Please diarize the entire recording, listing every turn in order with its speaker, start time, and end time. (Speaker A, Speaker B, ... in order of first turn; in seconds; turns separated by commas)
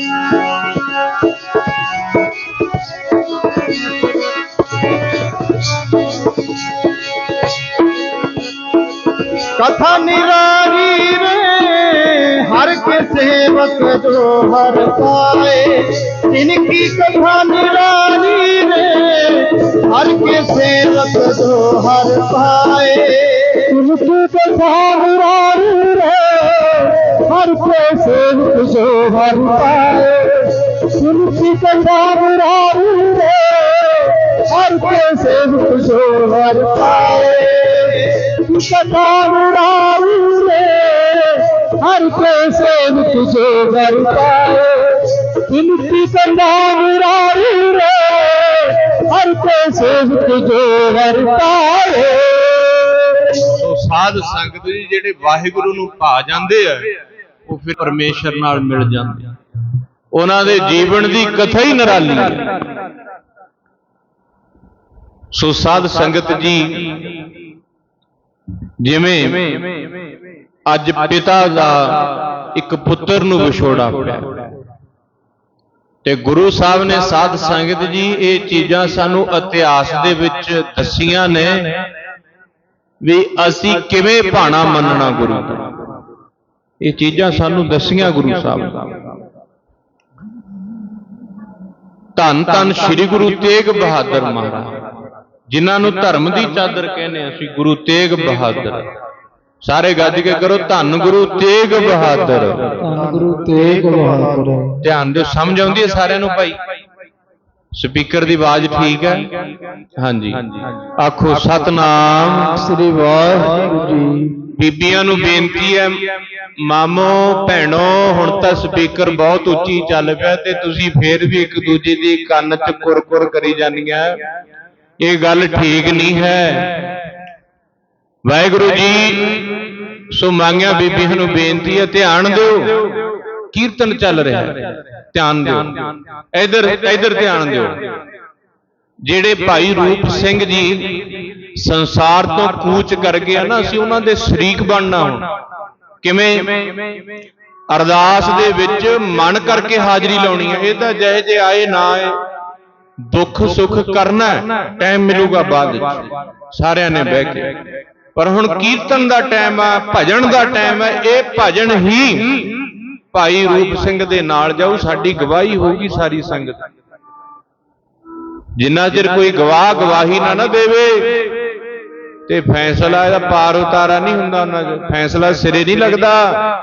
Speaker A: 9.5-23.6, Speaker B: 23.7-53.3, Speaker C: 53.4-56.9, Speaker C: 57.5-59.4, Speaker C: 60.1-62.6, Speaker C: 65.3-67.1, Speaker C: 68.8-69.8, Speaker C: 70.7-74.4, Speaker C: 76.0-81.8, Speaker C: 83.0-85.8, Speaker C: 86.8-89.1, Speaker C: 92.2-94.8, Speaker C: 95.5-98.9, Speaker C: 99.6-102.8, Speaker B: 102.8-104.3, Speaker A: 102.9-104.8, Speaker C: 104.8-106.6, Speaker C: 107.7-109.3, Speaker C: 110.0-112.8, Speaker B: 112.8-113.7, Speaker A: 113.3-114.1, Speaker C: 114.5-124.2, Speaker C: 125.0-126.9, Speaker C: 128.2-135.8, Speaker C: 136.3-137.8, Speaker C: 139.0-145.3, Speaker C: 146.0-146.7, Speaker C: 147.7-152.2, Speaker C: 153.0-157.6, Speaker C: 158.1-162.5, Speaker C: 163.1-166.6, Speaker C: 168.6-171.3, Speaker C: 172.2-176.4